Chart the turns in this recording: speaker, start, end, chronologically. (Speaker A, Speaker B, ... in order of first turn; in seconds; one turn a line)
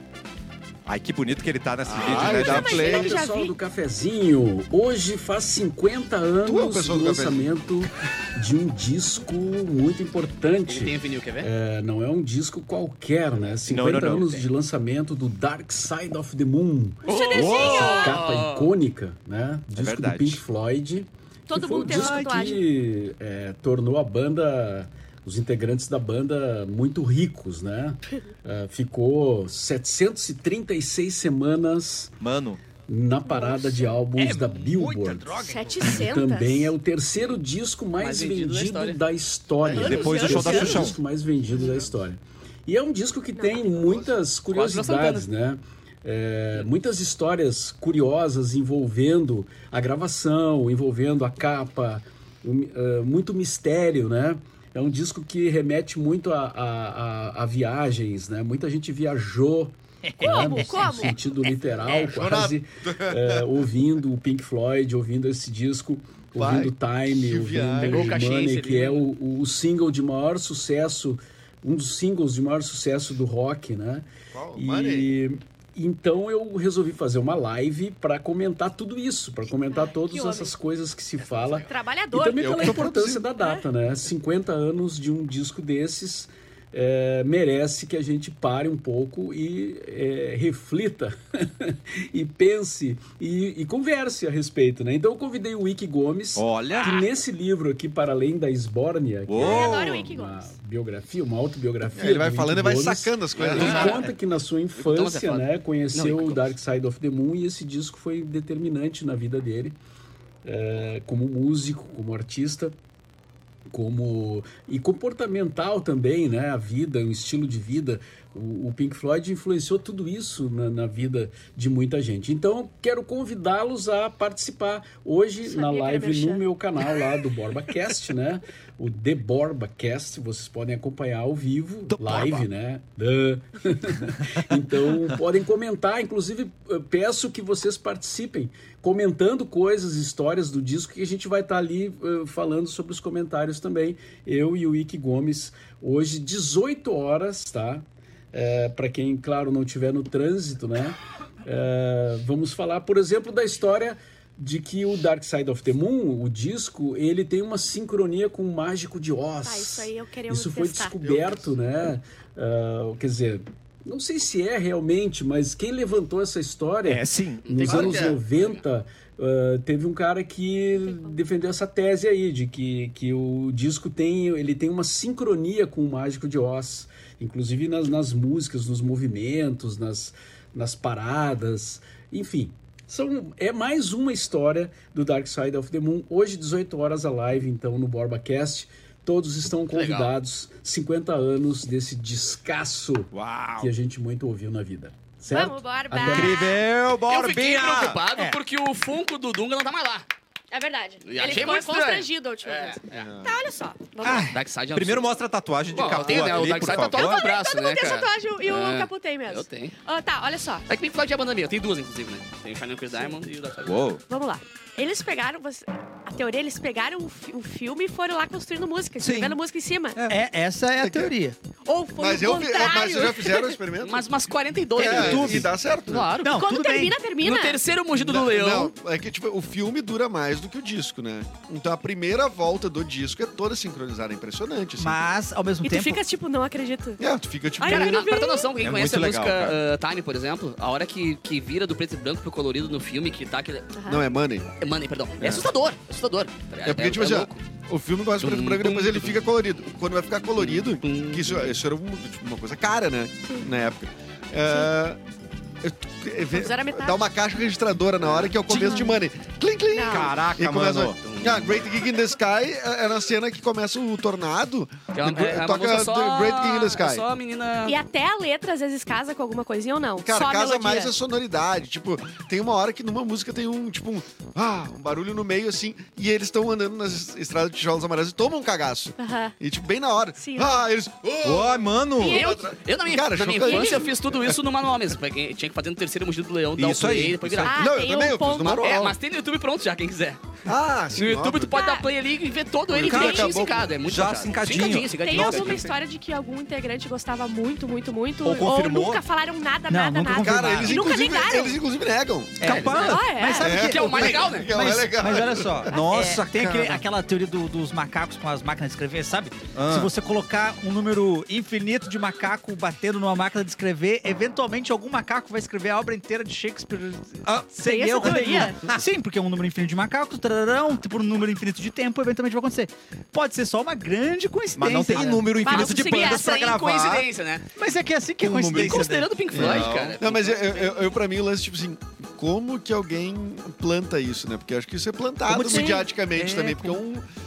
Speaker A: 0.8-2.9
Speaker B: 1.8-3.2
Speaker C: 2.0-3.5
Speaker D: 2.4-32.1
Speaker B: 6.4-7.5
Speaker E: 10.7-11.5
Speaker A: 13.7-14.4
Speaker E: 17.0-18.7
Speaker C: 17.1-18.2
Speaker A: 17.3-18.0
Speaker A: 19.8-20.4
Speaker C: 21.5-22.6
Speaker A: 21.8-22.5
Speaker A: 32.2-32.6
Speaker D: 32.9-109.8
Speaker C: 33.3-33.9
Speaker F: 34.1-36.1
Speaker C: 35.4-36.7
Speaker E: 38.0-39.0
Speaker A: 39.7-41.0
Speaker C: 39.8-40.9
Speaker C: 43.4-43.7
Speaker E: 44.5-45.3
Speaker F: 60.0-61.1
Speaker C: 60.2-61.1
Speaker B: 61.9-63.5
Speaker B: 66.3-68.2
Speaker E: 67.8-69.0
Speaker B: 74.3-75.1
Speaker C: 79.7-80.5
Speaker E: 81.2-81.7
Speaker C: 81.7-82.9
Speaker B: 82.4-83.2
Speaker C: 83.4-83.6
Speaker A: 96.3-97.0
Speaker A: 99.3-100.1
Speaker C: 99.4-100.5
Speaker B: 101.9-104.1
Speaker E: 103.4-104.1
Speaker E: 104.8-106.5
Speaker D: 110.4-112.7
Speaker D: 113.7-196.4
Speaker C: 125.4-126.4
Speaker A: 131.9-132.4
Speaker C: 159.4-160.9
Speaker B: 161.0-161.5
Speaker A: 166.8-168.1
Speaker E: 167.5-168.6
Speaker B: 167.7-168.2
Speaker C: 170.8-171.2
Speaker E: 189.7-190.1
Speaker A: 193.1-193.7
Speaker F: 193.2-193.5
Speaker C: 195.3-196.6
Speaker A: 195.9-198.0
Speaker E: 197.1-200.1
Speaker C: 200.5-204.3
Speaker E: 201.0-203.0
Speaker B: 202.9-203.3
Speaker F: 204.0-204.3
Speaker E: 204.1-205.1
Speaker A: 204.7-207.2
Speaker E: 205.7-209.7
Speaker C: 205.9-210.6
Speaker E: 210.7-213.8
Speaker A: 213.7-214.0
Speaker C: 214.1-220.0
Speaker A: 219.0-219.4
Speaker F: 220.1-221.3
Speaker B: 220.8-221.1
Speaker C: 221.7-223.6
Speaker B: 222.0-224.1
Speaker E: 223.8-226.4
Speaker B: 224.8-226.1
Speaker F: 224.8-225.5
Speaker F: 226.2-227.0
Speaker C: 226.3-227.6
Speaker E: 227.2-228.7
Speaker B: 227.9-235.0
Speaker F: 234.8-236.0
Speaker C: 235.6-237.0
Speaker B: 237.0-238.1
Speaker C: 237.6-238.5
Speaker E: 237.6-243.8
Speaker A: 238.6-239.6
Speaker C: 243.7-244.0
Speaker B: 243.9-244.5
Speaker E: 244.6-247.4
Speaker B: 245.2-245.5
Speaker B: 246.6-255.0
Speaker E: 248.2-249.2
Speaker E: 250.4-251.6
Speaker B: 255.6-267.1
Speaker C: 256.3-257.0
Speaker E: 258.1-258.3
Speaker C: 258.5-259.0
Speaker C: 259.7-260.1
Speaker A: 259.9-261.0
Speaker E: 261.0-261.7
Speaker E: 264.9-267.8
Speaker C: 267.6-270.9
Speaker B: 270.0-284.4
Speaker C: 279.0-279.3
Speaker C: 280.2-280.6
Speaker A: 281.2-282.2
Speaker C: 282.0-282.5
Speaker E: 282.2-287.5
Speaker C: 283.4-283.8
Speaker A: 286.6-287.5
Speaker C: 287.4-288.8
Speaker B: 287.5-289.0
Speaker E: 288.6-290.2
Speaker B: 290.4-291.6
Speaker E: 290.9-295.7
Speaker C: 291.5-291.8
Speaker B: 292.7-293.7
Speaker A: 292.8-295.7
Speaker C: 294.5-301.6
Speaker A: 298.2-299.0
Speaker F: 299.7-300.8
Speaker B: 300.2-302.6
Speaker F: 302.4-325.7
Speaker A: 302.4-303.1
Speaker E: 302.5-304.5
Speaker C: 302.7-303.5
Speaker B: 303.4-305.8
Speaker A: 305.7-306.8
Speaker A: 309.5-309.9
Speaker A: 317.2-318.8
Speaker C: 317.6-318.6
Speaker A: 324.5-327.1
Speaker C: 325.4-326.6
Speaker E: 325.4-327.4
Speaker F: 327.6-329.2
Speaker A: 328.3-328.8
Speaker E: 328.4-330.9
Speaker A: 329.3-330.0
Speaker B: 329.3-337.0
Speaker A: 335.3-336.7
Speaker C: 335.4-335.8